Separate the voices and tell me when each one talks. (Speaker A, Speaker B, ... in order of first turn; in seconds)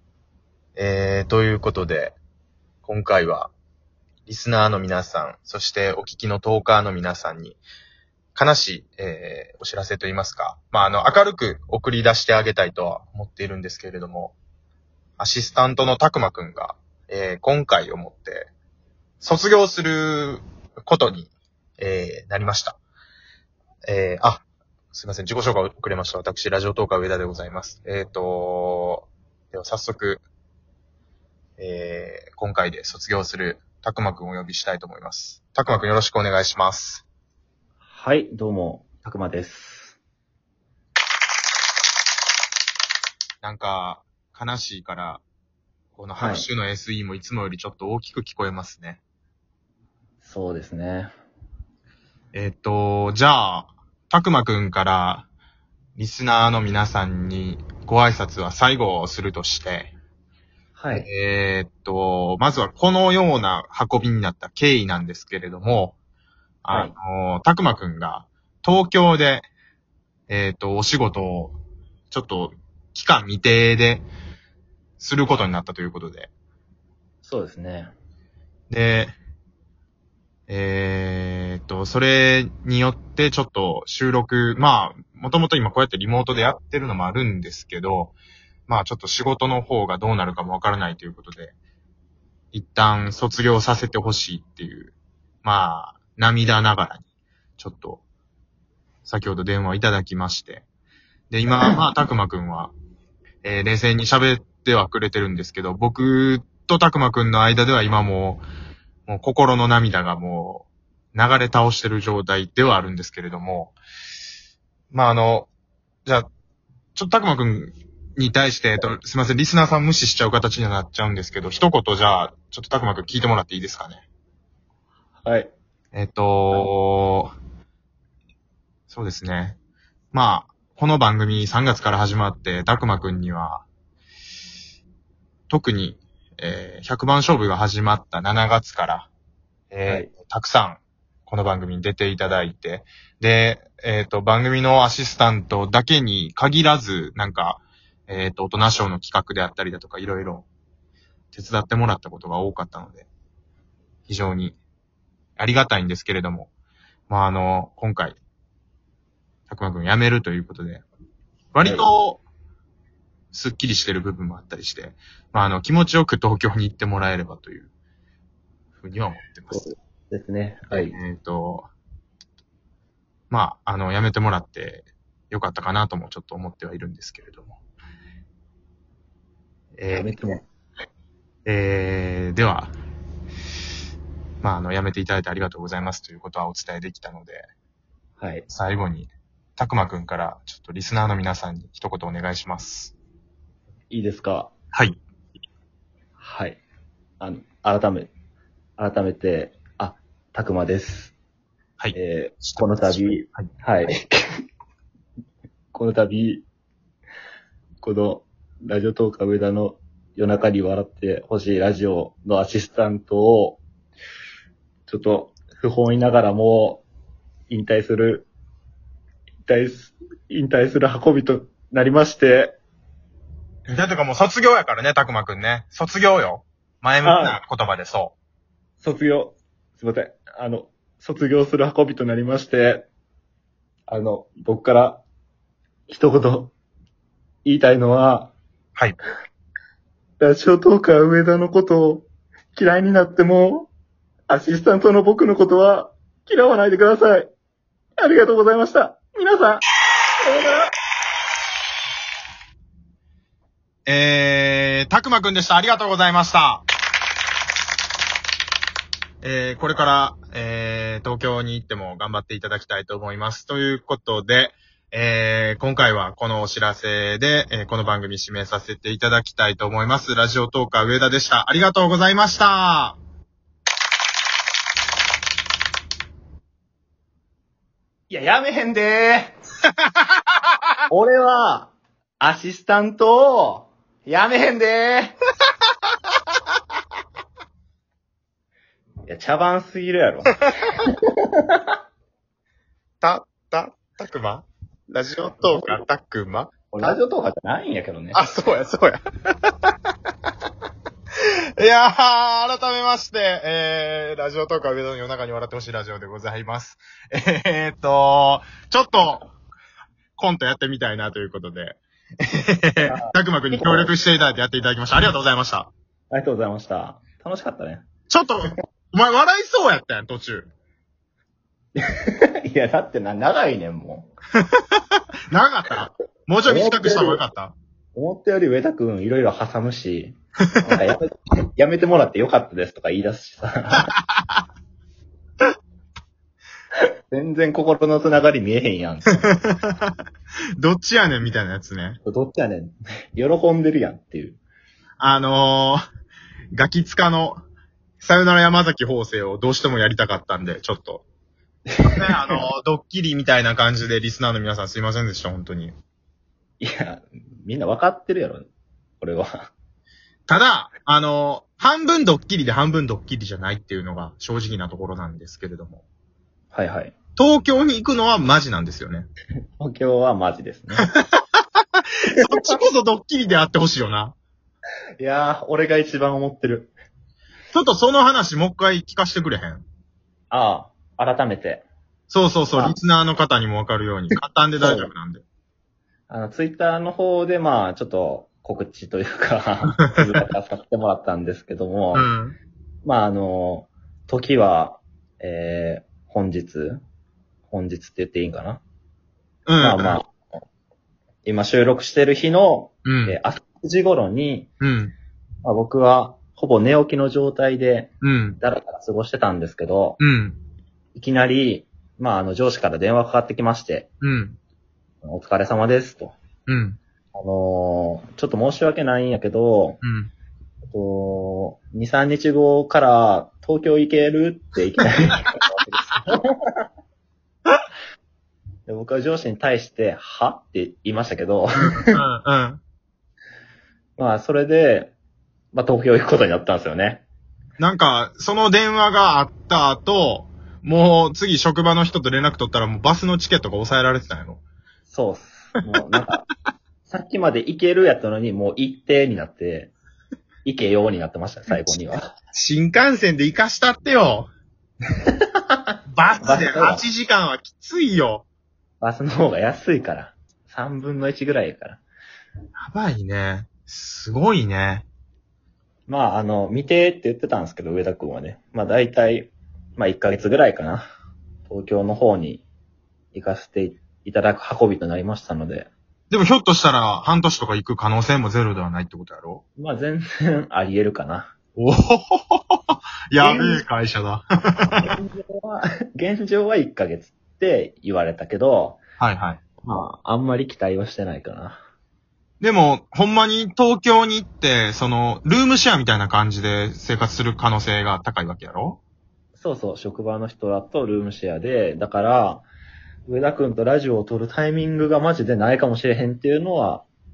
Speaker A: 0.8-2.2, 2.8-3.5, 4.3-7.6, 8.3-14.4, 15.2-18.5, 19.2-22.8, 23.9-30.2, 31.6-37.0, 43.4-45.2, 46.0-49.0, 52.3-55.3, 56.0-59.9, 60.9-66.0, 66.6-69.5, 70.3-71.6, 72.1-74.1, 75.0-76.3, 78.7-79.2, 80.5-88.2, 88.7-91.5, 92.5-97.1, 97.6-98.0, 99.0-100.7, 101.3-102.7, 103.4-108.4, 109.1-113.8, 114.9-115.5, 117.0-124.0, 125.9-127.3, 128.9-129.6, 130.1-133.7, 135.5-139.1, 139.7-150.5, 151.3-153.1, 154.1-154.6, 155.4-156.5, 157.1-158.2, 159.5-160.8, 161.5-162.2, 163.3-167.7, 168.8-169.7, 170.7-171.7, 173.3-177.6, 179.8-180.2, 181.5-182.7, 184.4-187.5, 188.5-192.9, 201.8-203.5, 223.7-228.1, 253.9-256.6, 259.2-273.0, 293.0-296.9, 298.1-299.7, 301.6-309.3, 310.2-315.7, 318.1-320.5, 325.3-327.5, 334.0-334.4, 339.3-340.0, 340.6-342.0, 345.0-345.8, 346.5-347.4, 348.0-351.0, 351.8-355.8, 360.3-365.8, 367.2-369.1, 370.8-371.4, 372.0-374.1, 377.5-379.6, 382.1-385.2, 391.9-392.4, 399.5-400.0, 402.9-403.2, 404.6-404.9, 408.0-408.4, 410.0-410.4, 414.0-414.4, 416.5-416.8, 419.8-420.1, 431.6-432.6, 437.6-444.4, 452.3-454.3, 455.9-458.3, 462.6-464.9, 476.1-479.4, 481.6-484.9, 489.0-489.4, 492.4-498.8
Speaker B: 37.9-40.0, 46.2-46.5, 50.2-51.1, 60.8-61.1, 77.2-77.9, 125.2-125.5, 169.5-170.9, 179.9-180.4, 188.2-188.5, 193.9-194.5, 196.2-196.6, 197.2-198.1, 198.8-201.1, 201.9-204.2, 205.7-206.4, 207.8-213.6, 214.9-216.8, 217.5-218.3, 219.4-222.6, 227.0-227.4, 228.8-232.9, 233.9-235.0, 235.9-236.5, 237.4-238.3, 240.2-243.7, 244.3-247.3, 248.0-249.6, 250.2-250.7, 278.1-279.4, 280.9-285.2, 289.1-291.6, 295.4-295.8, 296.7-298.2, 312.9-313.9, 316.1-317.9, 321.8-324.1, 326.5-327.2, 327.9-333.9, 337.1-339.4, 342.1-344.4, 351.7-352.4, 356.6-358.5, 359.0-359.5, 366.5-366.9, 369.6-370.9, 375.0-376.7, 380.3-381.6, 382.5-382.8, 384.6-384.9, 386.1-392.1, 392.8-396.8, 397.5-398.6, 399.6-400.1, 401.2-404.5, 405.4-410.0, 410.9-413.9, 415.0-416.1, 417.1-419.8, 420.7-426.7, 428.7-432.0, 434.0-434.9, 435.5-437.1, 444.9-446.3, 446.9-449.7, 450.4-452.1, 455.2-455.6, 456.2-456.8, 458.8-461.8, 465.9-470.9, 471.5-472.4, 473.1-475.7, 479.6-481.3, 483.2-483.7, 484.7-488.8, 489.6-491.6, 499.4-502.5, 503.1-506.9